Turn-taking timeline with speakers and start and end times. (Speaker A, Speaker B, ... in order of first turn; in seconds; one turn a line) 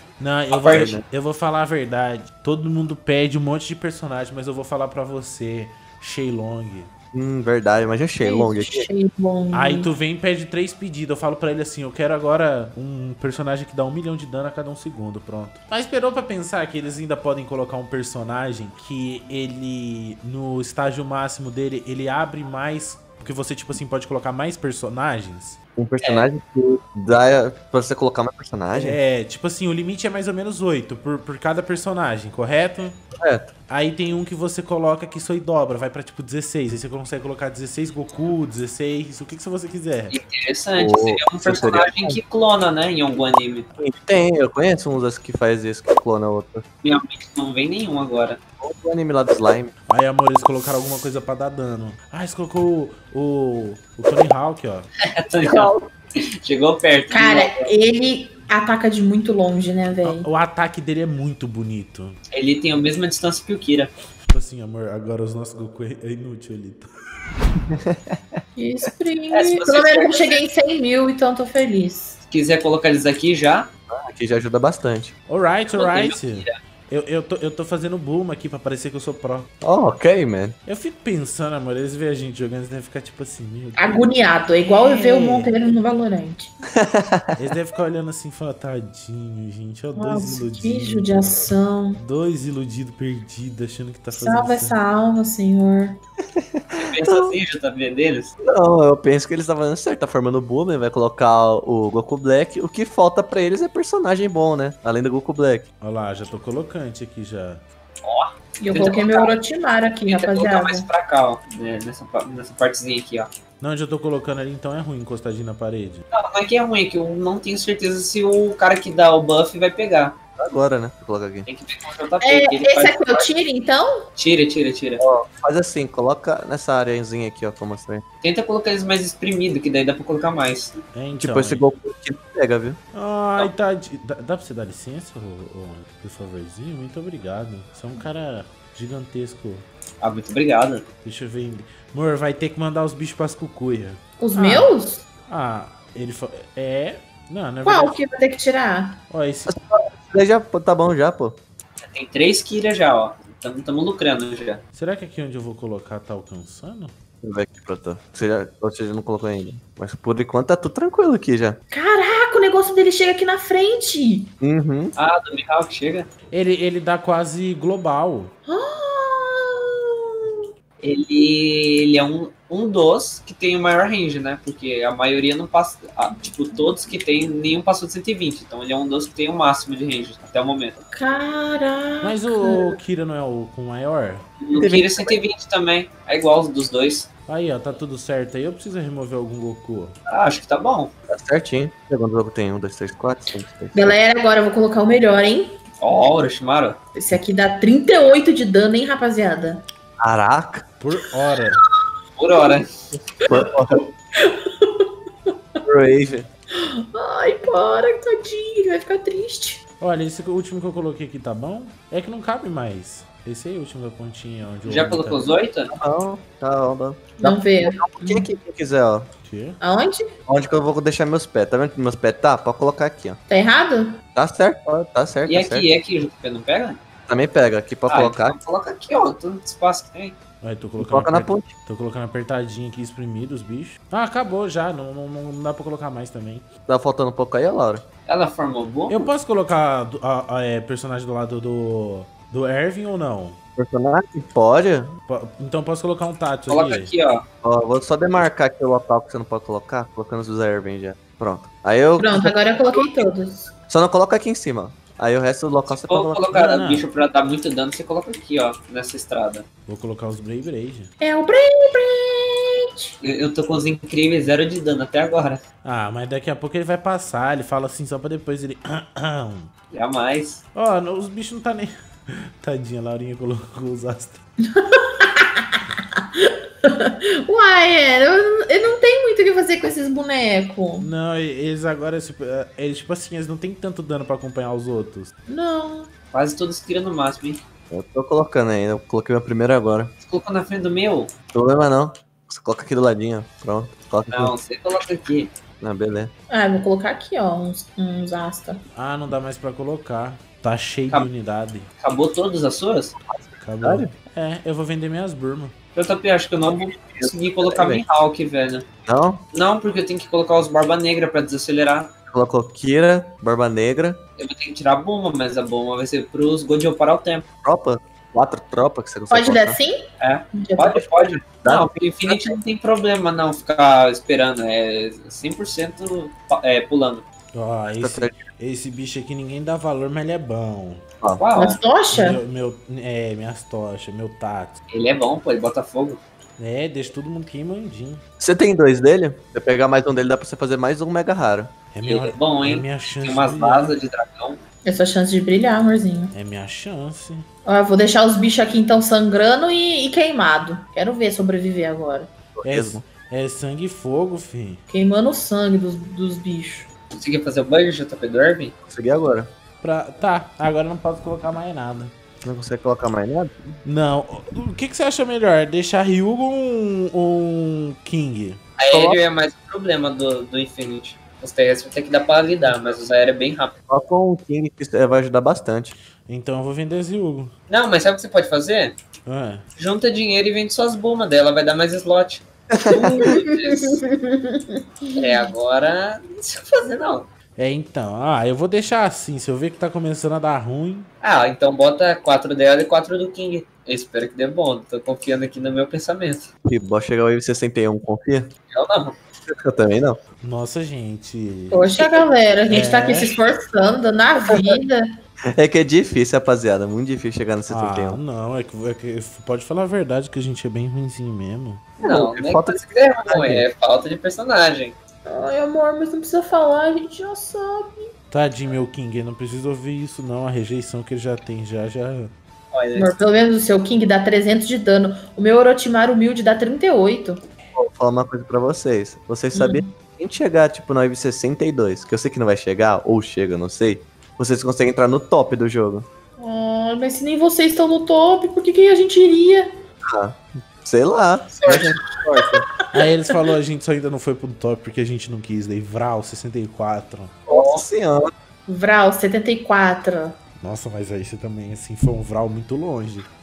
Speaker A: 0.2-6.9
Speaker B: 0.5-0.9
Speaker C: 0.7-1.0
Speaker C: 7.1-8.9
Speaker D: 8.2-9.9
Speaker A: 9.5-25.6
Speaker C: 25.8-29.0
Speaker B: 26.0-26.3
Speaker A: 28.7-33.0
Speaker C: 33.2-33.5
Speaker A: 33.7-40.2
Speaker B: 40.1-43.7
Speaker C: 40.8-42.2
Speaker C: 43.8-46.6
Speaker B: 46.8-48.4
Speaker C: 48.6-49.7
Speaker A: 49.9-54.9
Speaker B: 55.1-55.7
Speaker C: 55.4-55.9
Speaker B: 56.4-57.5
Speaker D: 57.1-60.3
Speaker A: 60.0-62.2
Speaker B: 62.3-63.9
Speaker A: 64.3-66.9
Speaker C: 67.6-68.4
Speaker D: 68.5-72.2
Speaker B: 69.3-70.4
Speaker B: 72.3-73.7
Speaker C: 73.9-75.1
Speaker A: 75.3-79.5
Speaker B: 75.7-76.5
Speaker C: 79.6-80.5
Speaker A: 80.7-84.1
Speaker D: 83.8-86.5
Speaker A: 84.8-85.5
Speaker C: 86.8-87.4
Speaker A: 87.4-91.4
Speaker D: 90.0-92.0
Speaker A: 92.0-94.8
Speaker D: 94.1-96.0
Speaker C: 96.4-97.3
Speaker B: 96.7-98.3
Speaker C: 98.4-105.7
Speaker A: 105.8-107.6
Speaker B: 108.0-109.4
Speaker D: 108.6-110.9
Speaker B: 110.0-113.3
Speaker A: 113.6-116.0
Speaker B: 116.1-120.1
Speaker C: 120.4-121.5
Speaker B: 121.5-123.3
Speaker D: 122.2-124.0
Speaker B: 124.2-125.0
Speaker C: 125.0-128.0
Speaker B: 128.2-130.8
Speaker A: 130.9-131.6
Speaker C: 131.2-132.8
Speaker A: 132.9-139.7
Speaker B: 140.0-140.9
Speaker A: 141.0-144.7
Speaker D: 144.2-145.0
Speaker A: 145.3-148.0
Speaker D: 147.6-149.0
Speaker A: 149.1-149.5
Speaker C: 149.5-151.4
Speaker B: 151.8-154.6
Speaker A: 154.7-156.9
Speaker C: 157.2-161.6
Speaker D: 161.7-164.3
Speaker C: 164.4-164.9
Speaker B: 165.0-166.1
Speaker A: 166.3-168.3
Speaker D: 168.5-170.4
Speaker B: 170.8-180.8
Speaker D: 180.9-182.8
Speaker A: 182.0-184.2
Speaker B: 184.4-187.1
Speaker C: 184.6-185.1
Speaker A: 187.3-189.9
Speaker B: 190.1-190.9
Speaker C: 191.1-194.0
Speaker D: 193.7-195.6
Speaker B: 195.8-196.8
Speaker D: 196.9-199.6
Speaker C: 200.0-200.6
Speaker A: 200.8-201.6
Speaker B: 202.2-202.9
Speaker C: 203.2-203.9
Speaker D: 204.1-205.6
Speaker C: 205.6-206.3
Speaker D: 206.5-209.6
Speaker A: 209.8-215.2
Speaker B: 214.7-215.7
Speaker C: 215.7-219.1
Speaker D: 217.2-218.3
Speaker A: 219.2-219.6
Speaker D: 219.6-220.1
Speaker C: 220.3-223.2
Speaker D: 223.3-224.0
Speaker C: 224.1-225.7
Speaker B: 225.3-226.8
Speaker C: 227.1-228.4
Speaker B: 227.9-230.2
Speaker A: 230.4-236.5
Speaker C: 230.8-231.5
Speaker C: 236.7-237.8
Speaker B: 238.1-239.1
Speaker A: 238.9-243.4
Speaker C: 243.6-244.9
Speaker A: 245.1-246.9
Speaker B: 246.5-247.2
Speaker C: 247.4-253.0
Speaker D: 252.0-253.5
Speaker C: 253.7-256.3
Speaker B: 255.8-259.4
Speaker A: 256.3-256.9
Speaker A: 259.7-260.9
Speaker D: 261.0-262.9
Speaker B: 263.0-265.4
Speaker A: 265.6-269.5
Speaker B: 269.7-270.4
Speaker A: 270.5-274.2
Speaker D: 274.5-280.9
Speaker A: 280.8-285.1
Speaker D: 285.3-285.9
Speaker B: 286.1-287.4
Speaker C: 287.7-289.9
Speaker B: 290.0-291.1
Speaker C: 291.3-294.4
Speaker B: 294.1-295.3
Speaker C: 295.6-296.1
Speaker D: 296.3-298.6
Speaker A: 298.8-301.7
Speaker B: 301.8-302.9
Speaker C: 303.0-303.9
Speaker A: 303.4-305.5
Speaker B: 305.8-308.6
Speaker C: 306.5-307.8
Speaker C: 308.9-309.2
Speaker B: 309.3-311.9
Speaker C: 312.1-314.0
Speaker B: 314.2-317.2
Speaker C: 317.4-319.6
Speaker D: 319.1-319.9
Speaker B: 320.0-327.0
Speaker D: 320.4-320.8
Speaker C: 321.4-322.4
Speaker A: 327.3-330.8
Speaker C: 327.8-328.3
Speaker B: 331.2-331.6
Speaker D: 331.4-332.2
Speaker A: 331.9-334.6
Speaker B: 334.7-336.0
Speaker A: 336.4-338.0
Speaker C: 338.2-341.5
Speaker A: 341.7-343.7
Speaker B: 341.9-344.4
Speaker D: 344.6-346.1
Speaker A: 346.1-347.2
Speaker D: 347.4-352.1
Speaker C: 352.4-352.8
Speaker A: 352.4-354.6
Speaker D: 354.7-356.7
Speaker B: 356.9-358.5
Speaker C: 358.7-359.3
Speaker A: 359.6-361.9
Speaker C: 362.2-363.3
Speaker A: 363.6-368.4
Speaker B: 368.6-373.5
Speaker C: 368.7-369.0
Speaker C: 373.7-375.7
Speaker A: 376.1-377.3
Speaker B: 377.5-378.8
Speaker A: 379.1-379.4
Speaker B: 379.6-383.8
Speaker C: 382.5-383.1
Speaker D: 383.0-385.3
Speaker B: 384.9-387.1
Speaker A: 387.4-390.9
Speaker B: 391.0-396.3
Speaker C: 396.5-398.3
Speaker B: 398.5-399.0
Speaker C: 399.2-400.0
Speaker A: 400.2-401.6
Speaker D: 401.5-404.9
Speaker A: 402.5-403.1
Speaker C: 405.4-408.0
Speaker A: 407.5-411.6
Speaker C: 411.8-413.5
Speaker B: 411.8-414.8
Speaker D: 415.1-417.9
Speaker A: 418.1-422.1
Speaker B: 422.5-422.9
Speaker D: 422.8-427.2
Speaker C: 427.6-435.9
Speaker D: 429.3-429.7
Speaker D: 436.2-439.5
Speaker C: 439.9-442.4
Speaker D: 441.3-443.1
Speaker A: 442.7-447.1
Speaker B: 447.3-447.6
Speaker C: 447.3-448.1
Speaker D: 448.5-450.2
Speaker A: 450.4-453.1